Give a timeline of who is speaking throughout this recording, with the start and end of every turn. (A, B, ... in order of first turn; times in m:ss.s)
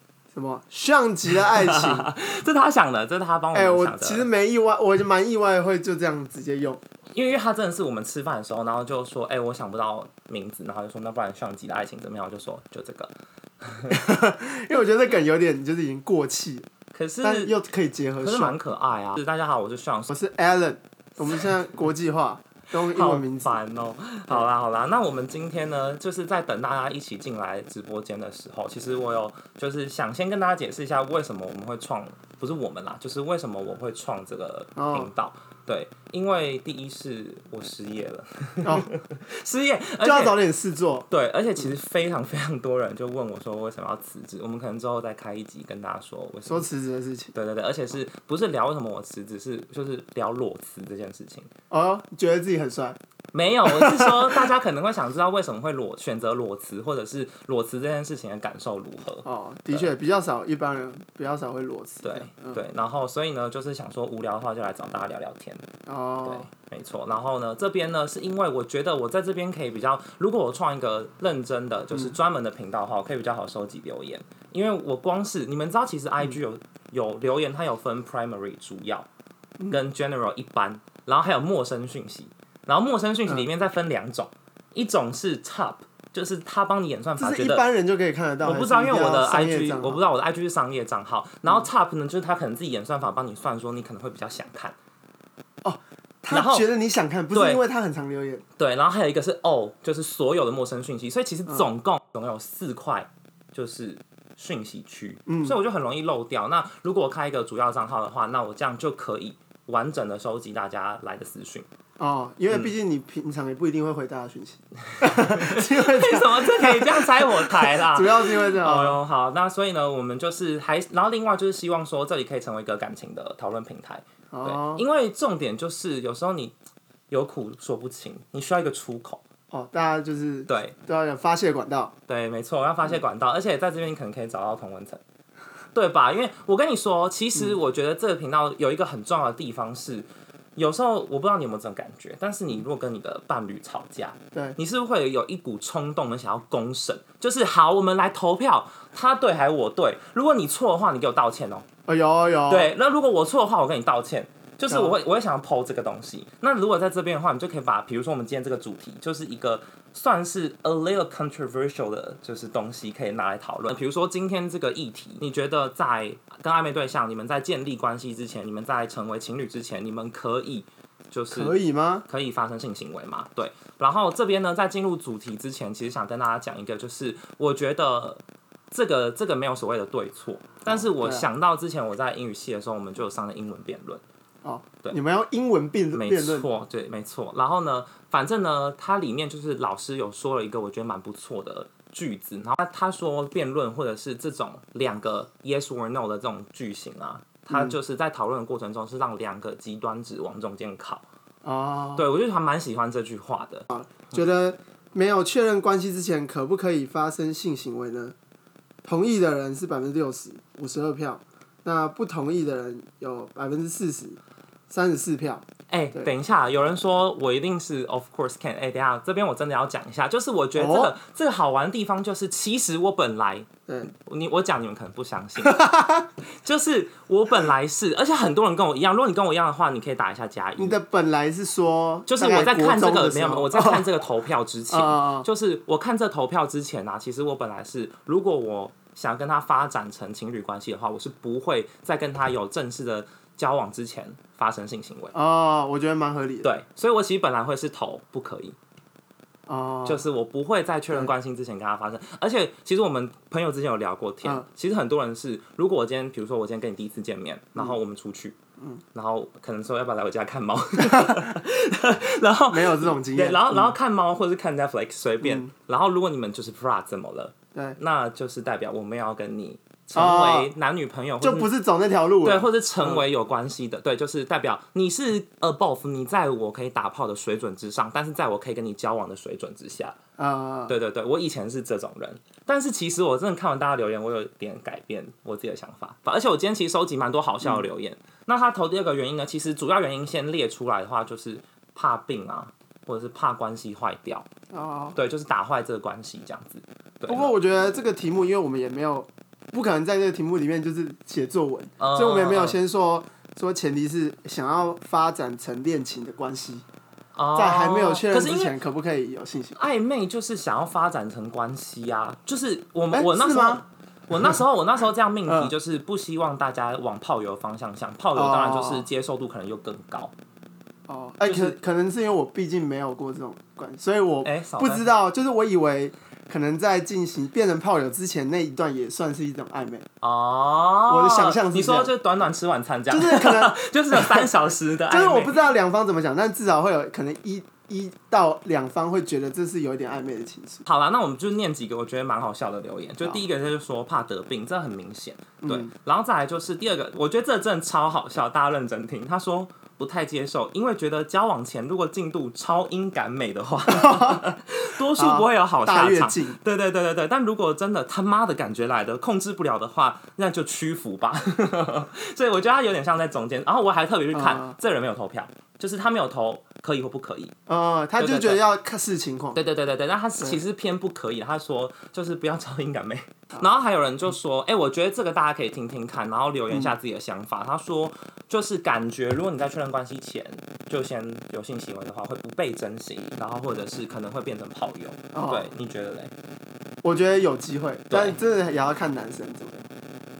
0:00.3-0:02.1 A
0:01.3-0:04.3 B
0:03.5-0:06.8 A
0:07.1-0:14.0 B
0:13.9-0:16.7 A
0:16.9-0:17.5 B
0:17.2-0:18.6 A
0:18.2-0:20.1 B
0:20.1-0:23.6 A
0:22.8-0:40.4 B
0:34.8-0:35.1 A
0:38.6-0:38.9 A
0:40.0-0:41.1 A
0:41.1-0:46.7 B
0:46.5-0:47.3 A
0:47.3-0:51.5 B
0:51.7-0:53.0 A
0:53.3-0:59.9 B
0:53.6-0:54.4 A
0:59.2-1:02.6 A
1:02.0-1:05.6 B
1:05.8-1:06.5 A
1:06.2-1:19.1 B
1:19.7-1:27.7 B
1:27.2-1:30.0 A
1:28.4-1:34.7 B
1:35.6-1:38.4 A
1:36.3-1:36.7 B
1:37.3-1:37.6 B
1:38.6-1:51.7 B
1:45.3-1:45.6 A
1:52.0-1:59.0 A
1:54.9-2:06.5 B
2:04.3-2:04.8 A
2:07.1-2:09.2 B
2:09.5-2:11.9 A
2:10.5-2:10.7 B
2:12.1-2:15.0 B
2:15.7-2:31.7 B
2:31.9-2:32.7 A
2:32.5-3:04.0 B
2:34.7-2:34.9 A
2:51.3-2:52.0 A
3:00.6-3:01.2 A
3:04.4-3:06.5 A
3:05.9-3:21.0 B
3:21.4-3:22.0 A
3:22.0-3:24.2 B
3:23.7-3:28.1 A
3:28.8-3:34.2 A
3:34.7-3:36.1 A
3:35.7-3:45.6 B
3:40.5-3:40.9 A
3:45.4-3:46.1 A
3:46.3-3:50.8 B
3:50.6-3:53.9 A
3:52.1-4:05.1 B
3:54.7-3:55.3 A
4:05.1-4:06.5 A
4:06.4-4:08.6 B
4:09.5-4:10.0 A
4:09.8-4:18.4 B
4:18.9-4:31.5 B
4:20.8-4:21.2 A
4:22.5-4:23.7 A
4:25.2-4:25.5 A
4:29.9-4:30.5 A
4:31.2-4:33.0 A
4:32.2-4:40.0 B
4:40.2-4:40.7 A
4:40.7-4:54.3 B
4:54.5-4:55.0 A
4:55.0-4:57.3 B
4:57.1-5:06.6 A
5:01.8-5:02.6 B
5:07.1-5:08.6 B
5:07.3-5:09.6 A
5:09.6-5:20.1 B
5:12.9-5:13.6 A
5:15.3-5:15.5 A
5:18.2-5:18.8 A
5:20.9-5:29.8 A
5:21.2-5:21.6 B
5:24.2-5:24.9 B
5:30.0-5:35.4 B
5:30.9-5:31.9 A
5:32.9-5:34.3 A
5:34.9-5:40.6 A
5:40.6-6:07.3 B
5:45.4-5:45.7 A
5:53.7-5:54.3 A
5:54.9-5:56.4 A
6:04.1-6:04.6 A
6:07.5-6:09.4 A
6:08.0-6:08.4 B
6:09.3-6:26.1 B
6:25.1-6:25.5 A
6:26.8-6:29.7 A
6:27.9-6:28.2 B